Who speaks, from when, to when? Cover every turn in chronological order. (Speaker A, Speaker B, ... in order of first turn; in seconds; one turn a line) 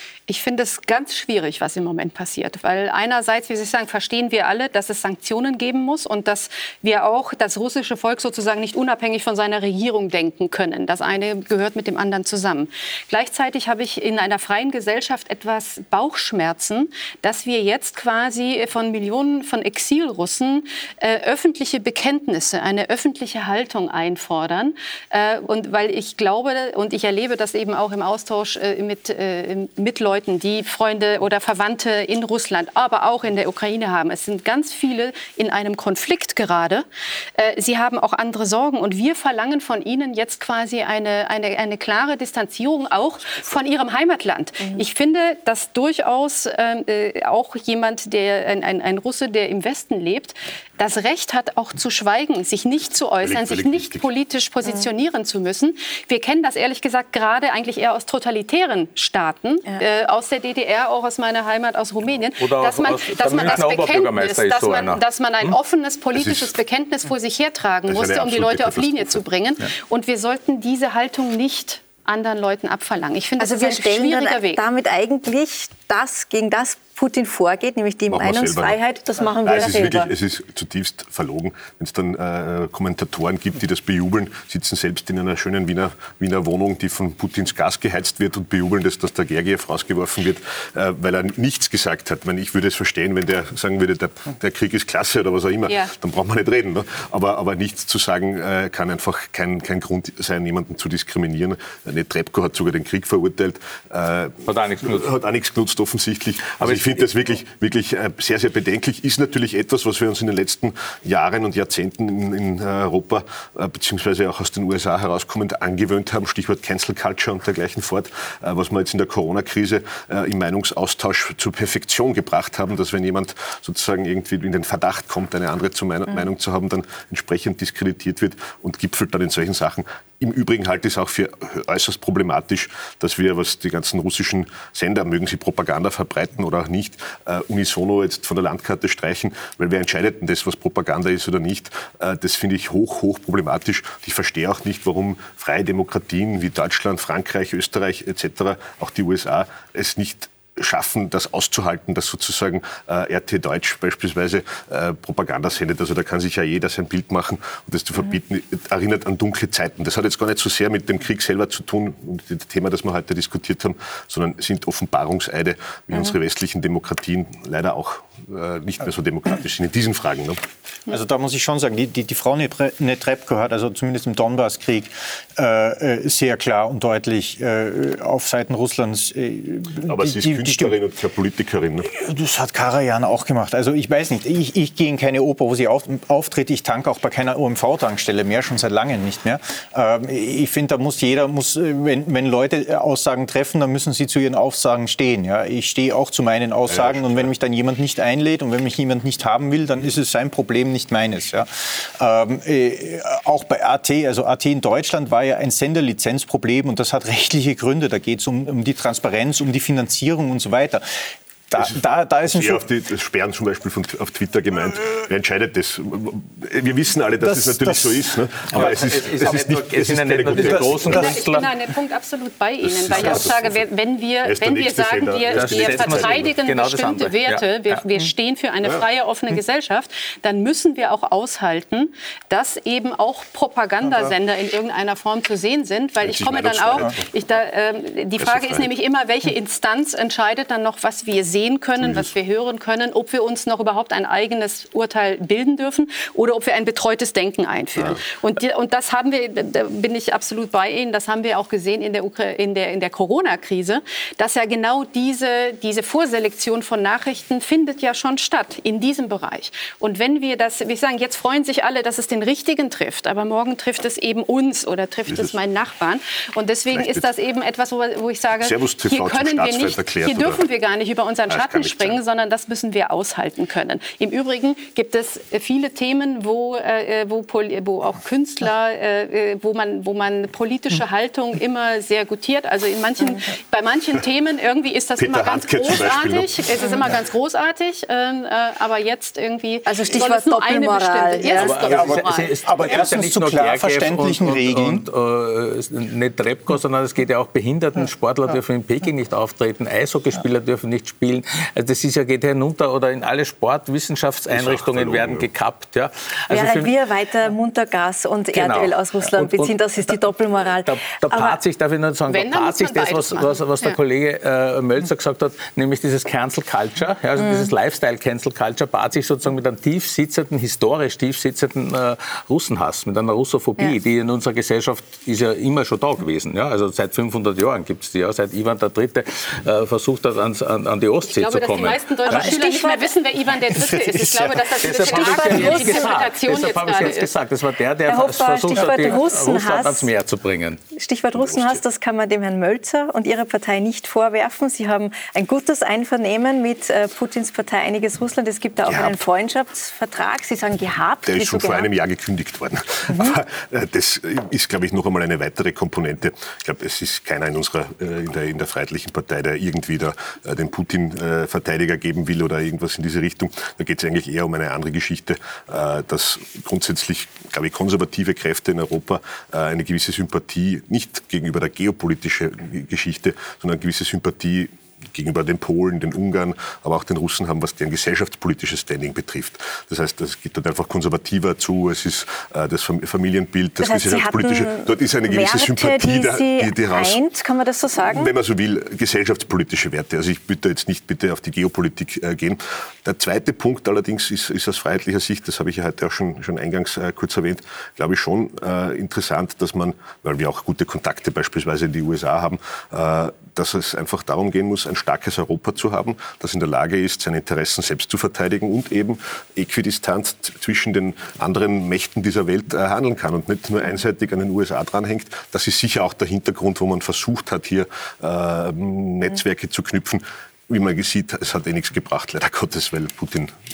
Speaker A: 0.3-74.6
Speaker B: 53.2-54.0
Speaker C: 62.4-65.0
Speaker B: 66.2-66.5
Speaker B: 67.9-69.2
Speaker D: 73.4-80.1
Speaker B: 78.1-78.8
Speaker B: 79.4-170.4
Speaker A: 95.7-95.9
Speaker C: 104.4-105.2
Speaker C: 106.6-107.1
Speaker E: 170.9-180.8
Speaker B: 179.8-181.9
Speaker E: 181.8-212.6
Speaker B: 196.7-197.2
Speaker B: 212.2-221.1
Speaker E: 217.2-218.8
Speaker C: 218.5-221.5
Speaker E: 220.3-221.1
Speaker A: 220.8-292.4
Speaker B: 222.6-223.6
Speaker B: 224.2-226.3
Speaker C: 225.3-227.8
Speaker B: 236.0-237.0
Speaker B: 238.2-238.7
Speaker B: 266.7-267.1
Speaker B: 268.4-270.4
Speaker B: 271.3-272.0
Speaker B: 285.0-286.4
Speaker D: 289.6-291.6
Speaker C: 291.3-306.7
Speaker E: 291.6-294.9
Speaker B: 304.3-305.3
Speaker D: 306.3-311.4
Speaker C: 308.3-309.5
Speaker C: 310.6-332.3
Speaker A: 312.1-313.8
Speaker A: 331.1-337.1
Speaker D: 332.1-332.9
Speaker E: 333.5-334.8
Speaker C: 334.6-340.6
Speaker D: 334.8-336.1
Speaker D: 337.9-339.9
Speaker D: 340.7-351.7
Speaker B: 341.2-341.6
Speaker B: 348.7-349.0
Speaker B: 351.1-387.0
Speaker D: 352.9-353.2
Speaker D: 383.6-388.1
Speaker B: 387.9-423.3